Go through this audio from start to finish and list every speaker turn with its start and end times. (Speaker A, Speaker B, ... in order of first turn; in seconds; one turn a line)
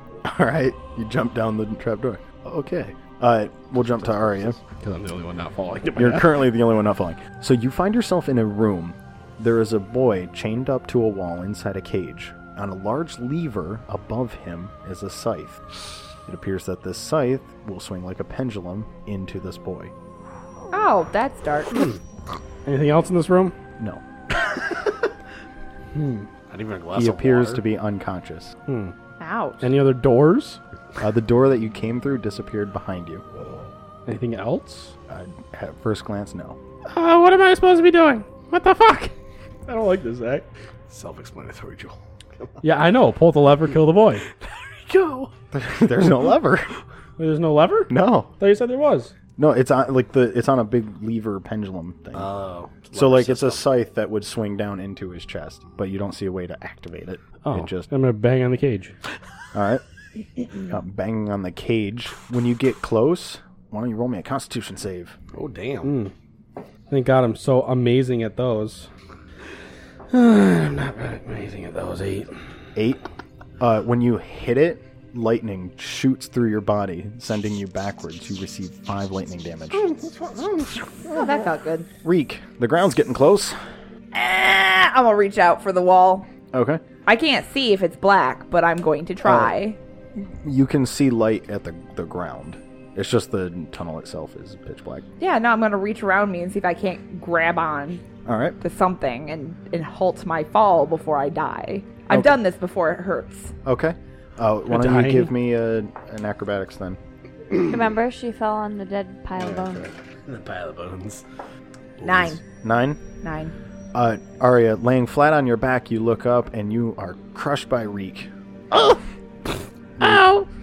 Speaker A: 0.2-4.6
Speaker B: 4.2-4.5
Speaker C: 4.6-6.4
Speaker A: 6.0-15.6
Speaker A: 16.2-19.9
Speaker D: 20.7-21.9
Speaker C: 22.6-23.5
Speaker C: 25.9-26.3
Speaker B: 26.5-27.6
Speaker A: 26.9-28.5
Speaker C: 28.7-28.9
Speaker D: 29.2-29.7
Speaker C: 29.6-30.6
Speaker A: 31.0-33.2
Speaker C: 34.0-34.9
Speaker A: 35.1-36.6
Speaker C: 36.9-39.1
Speaker C: 39.7-40.5
Speaker B: 40.9-42.6
Speaker C: 42.6-44.2
Speaker B: 44.4-45.3
Speaker A: 45.5-46.7
Speaker C: 47.2-49.1
Speaker A: 47.9-48.3
Speaker A: 49.4-52.3
Speaker B: 52.1-53.7
Speaker A: 52.9-57.9
Speaker C: 57.4-58.9
Speaker A: 59.5-59.8
Speaker A: 60.6-65.2
Speaker B: 65.3-65.9
Speaker C: 65.8-66.1
Speaker C: 66.9-68.9
Speaker C: 70.1-72.3
Speaker A: 72.8-73.0
Speaker A: 73.6-80.0
Speaker D: 81.0-81.9
Speaker A: 82.0-83.6
Speaker D: 84.1-86.3
Speaker A: 86.5-86.8
Speaker D: 87.0-89.8
Speaker A: 89.2-89.5
Speaker A: 90.1-95.0
Speaker D: 95.2-98.0
Speaker A: 98.2-98.6
Speaker D: 98.6-103.5
Speaker A: 102.1-102.4
Speaker A: 103.6-107.0
Speaker C: 104.7-105.3
Speaker E: 107.6-109.9
Speaker B: 109.4-111.2
Speaker B: 112.0-112.4
Speaker D: 112.0-112.4
Speaker A: 112.6-113.0
Speaker D: 113.2-113.5
Speaker A: 113.9-118.9
Speaker A: 120.0-120.2
Speaker C: 120.0-120.5